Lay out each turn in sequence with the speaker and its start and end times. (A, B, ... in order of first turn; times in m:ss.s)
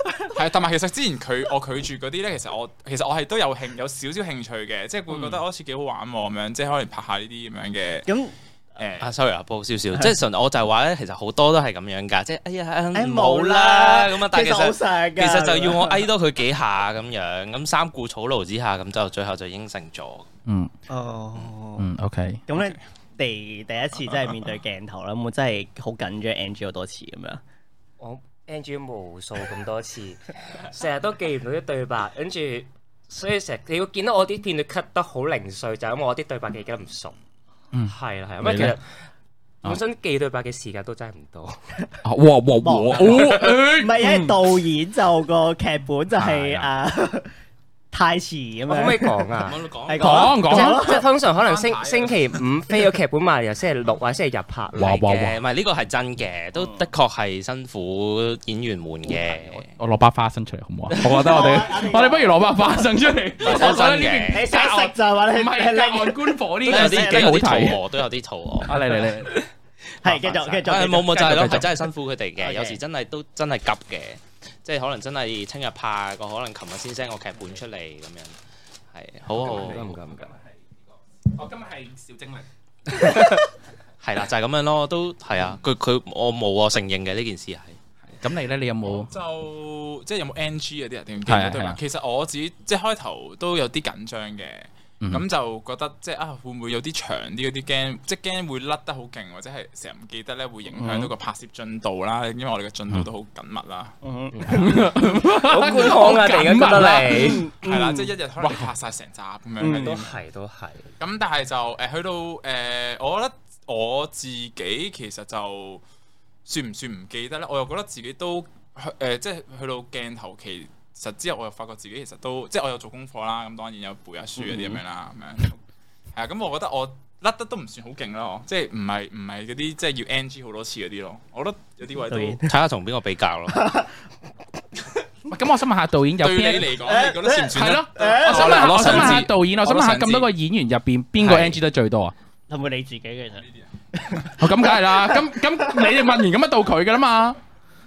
0:00.3-0:08.1 A
0:08.1-0:08.3 B
0:08.8-0:09.1 A
0:09.0-0:20.3 C
0:12.9-0:16.1 B
0:20.5-0:20.7 D
0:20.9-0:21.9 B
0:21.8-0:22.4 D
0:22.5-0:27.4 B
0:28.0-0:37.2 E
0:37.7-0:38.8 D
0:37.9-0:38.8 E
0:39.6-0:41.6 E
0:42.0-0:44.4 D
0:42.6-0:47.3 B
0:46.2-0:46.7 D
0:47.9-0:49.3 B
0:48.7-0:49.7 E
0:49.4-0:50.3 C
0:49.9-0:51.0 B
0:50.0-0:51.0 D
0:50.3-0:55.4 E
0:51.3-0:52.4 A
0:54.8-0:55.4 D
0:55.0-0:59.7 C
0:59.2-1:07.8 D
1:01.1-1:02.6 B
1:03.4-1:07.8 B
1:03.4-1:04.5 C
1:06.7-1:09.0 C
1:08.6-1:09.5 D
1:10.0-1:11.8 B
1:10.1-1:10.6 D
1:10.6-1:18.4 C
1:11.2-1:11.7 D
1:12.4-1:12.8 B
1:18.9-1:20.0 C
1:19.3-1:20.3 E
1:19.9-1:20.6 D
1:21.2-1:22.5 D
1:22.9-1:23.4 C
1:24.0-1:27.8 C
1:28.2-1:29.1 D
1:28.8-1:44.0 A
1:31.3-1:31.8 D
1:40.7-1:41.1 B
1:44.0-1:44.7 B
1:44.4-1:47.5 E
1:44.5-1:47.4 D
1:46.2-1:50.1 A
1:47.0-1:48.1 B
1:48.4-1:48.7 D
1:49.6-1:50.0 B
1:49.6-1:50.9 E
1:51.0-1:55.8 A
1:56.4-2:05.6 A
2:04.4-2:04.8 B
2:06.2-2:12.4 A
2:12.1-2:12.5 B
2:12.4-2:13.7 C
2:13.5-2:13.9 B
2:15.3-2:16.8 D
2:16.2-2:20.3 A
2:16.8-2:19.2 B
2:17.5-2:22.2 D
2:22.5-2:24.3 B
2:24.4-2:27.4 D